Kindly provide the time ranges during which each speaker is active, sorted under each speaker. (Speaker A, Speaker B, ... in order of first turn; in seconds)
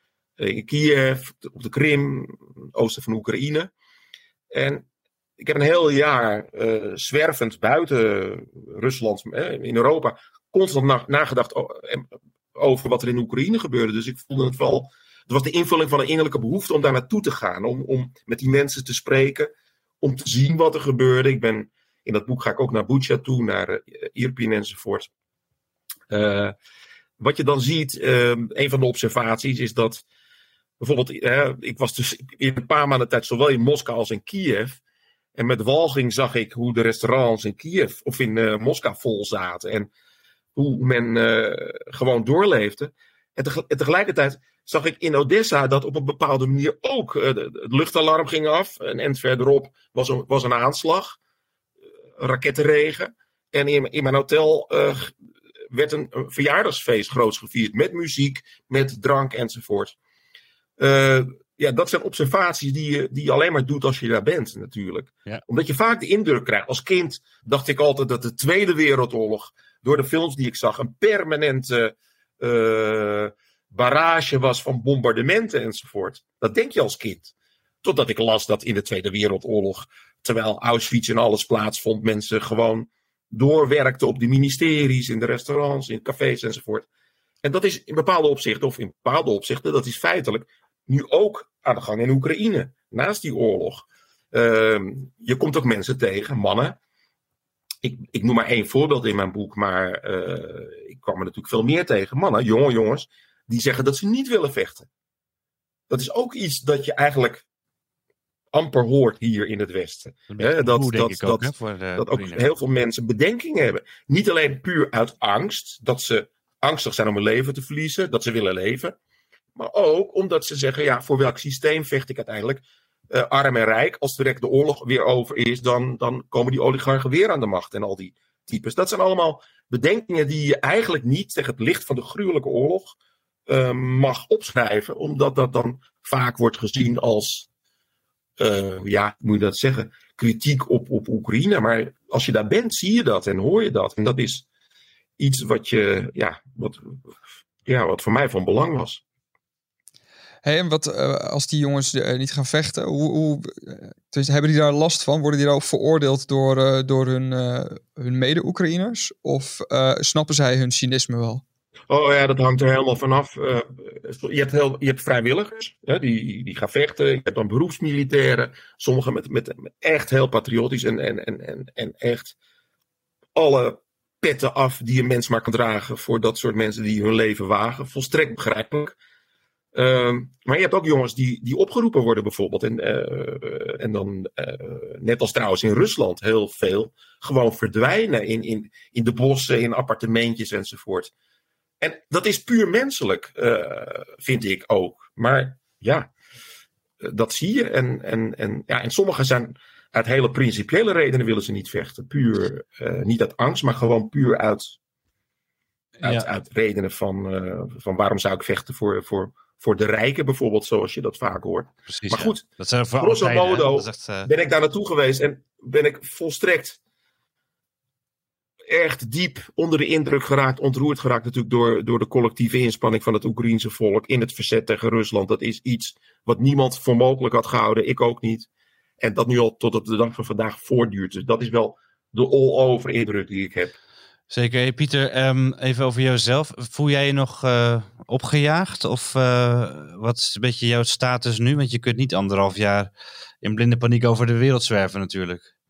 Speaker A: 0.4-3.7, 4.5-4.8, 5.4-25.1, 26.1-26.5, 27.2-30.0, 30.8-34.8, 35.4-39.9, 40.5-51.2, 52.2-55.1, 55.7-60.0, 60.8-77.3, 77.8-86.8, 87.4-96.8, 97.8-104.9, 105.9-107.4, 108.5-119.0, 119.5-132.9, 133.5-137.5, 138.4-144.4, 145.2-147.0, 147.7-149.0, 161.9-172.3, 173.3-178.9, 179.7-191.1, 191.8-196.1, 197.0-204.8, 206.0-212.4, 213.0-216.8, 218.7-228.5, 229.0-233.7
Speaker B: 110.3-112.5, 206.0-206.3, 211.9-214.3, 234.3-242.9, 243.4-245.4
Speaker C: 150.4-161.4